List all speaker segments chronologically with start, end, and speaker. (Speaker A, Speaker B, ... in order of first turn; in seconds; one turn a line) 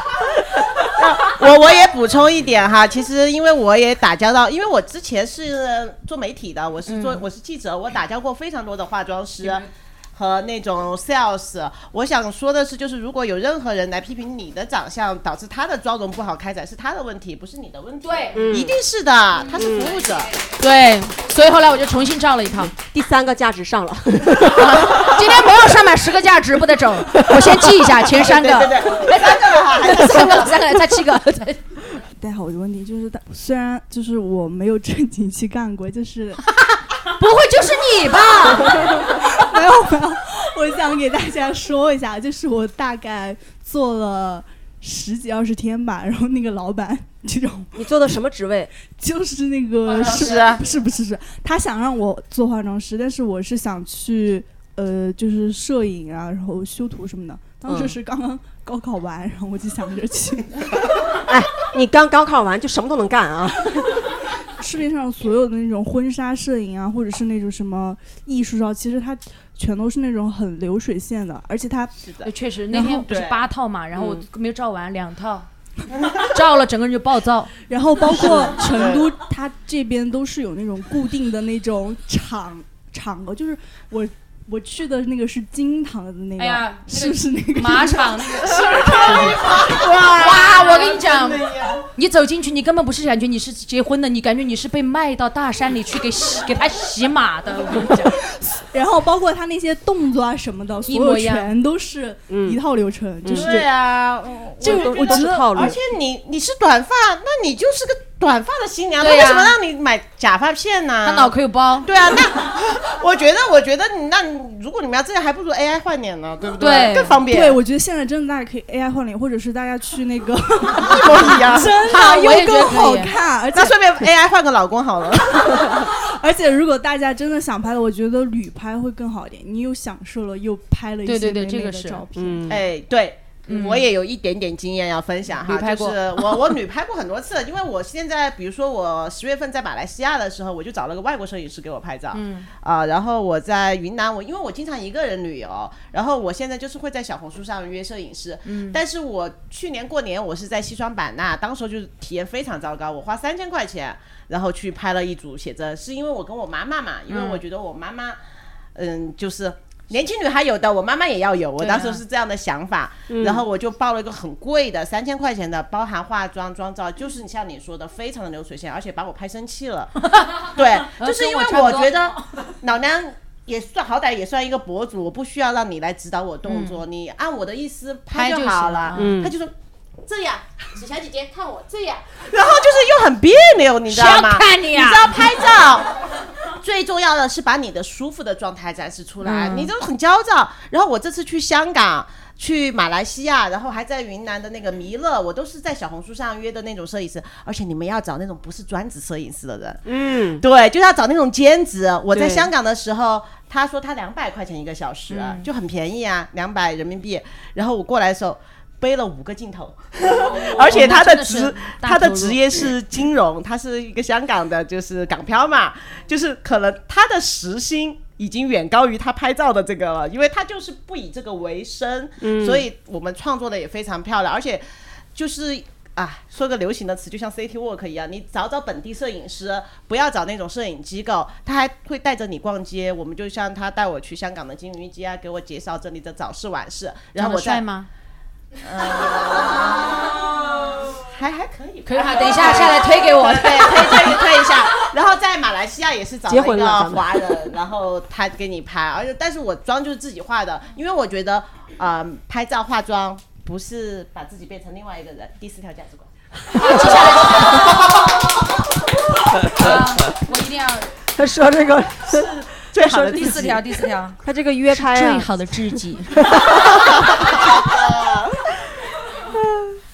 Speaker A: 0.9-20.3
Speaker B: 6.9-7.2
Speaker B: 18.0-18.5
Speaker C: 18.4-18.8
Speaker C: 19.6-19.9
Speaker B: 20.6-22.8
Speaker C: 22.8-25.2
Speaker B: 24.6-31.6
Speaker A: 28.2-30.6
Speaker D: 32.2-36.4
Speaker B: 37.0-38.9
Speaker D: 39.0-47.8
Speaker C: 47.7-48.7
Speaker D: 48.9-60.6
Speaker A: 49.9-50.6
Speaker C: 57.7-58.0
Speaker C: 61.2-63.9
Speaker D: 64.6-71.9
Speaker A: 72.0-73.4
Speaker B: 72.2-75.5
Speaker C: 74.0-74.2
Speaker B: 76.1-77.6
Speaker D: 77.7-89.3
Speaker A: 78.6-79.1
Speaker B: 86.4-98.2
Speaker A: 88.5-91.8
Speaker D: 98.5-103.6
Speaker B: 100.9-101.5
Speaker C: 102.3-102.6
Speaker C: 103.2-103.7
Speaker A: 103.3-117.6
Speaker C: 104.6-105.8
Speaker D: 104.7-105.7
Speaker B: 109.0-109.6
Speaker B: 111.0-111.9
Speaker B: 116.6-117.2
Speaker D: 117.3-123.9
Speaker A: 120.9-121.8
Speaker B: 121.8-123.1
Speaker A: 123.5-125.7
Speaker D: 125.5-132.6
Speaker B: 131.1-132.0
Speaker C: 132.1-132.6
Speaker A: 132.5-158.2
Speaker B: 133.5-133.9
Speaker B: 135.4-136.5
Speaker B: 142.1-142.5
Speaker B: 148.5-148.8
Speaker B: 157.1-157.4
Speaker A: 158.8-179.5
Speaker B: 161.6-162.0
Speaker C: 163.1-163.4
Speaker B: 170.0-172.2
Speaker B: 176.5-176.8
Speaker B: 178.1-179.2
Speaker C: 178.9-179.3
Speaker A: 180.1-186.0
Speaker B: 183.9-185.2
Speaker A: 186.5-199.8
Speaker B: 189.2-189.7
Speaker C: 199.8-200.4
Speaker A: 200.4-237.7
Speaker C: 202.1-202.5
Speaker B: 205.1-205.5
Speaker B: 210.2-212.7
Speaker C: 222.2-222.7
Speaker B: 237.2-237.9
Speaker A: 238.6-256.1
Speaker B: 241.9-244.3
Speaker C: 246.3-247.2
Speaker B: 256.5-258.1
Speaker B: 259.4-260.9
Speaker C: 261.2-263.6
Speaker A: 262.1-263.6
Speaker B: 262.9-264.2
Speaker C: 264.2-265.5
Speaker B: 264.7-266.3
Speaker C: 266.2-267.4
Speaker A: 267.5-268.4
Speaker C: 269.3-269.8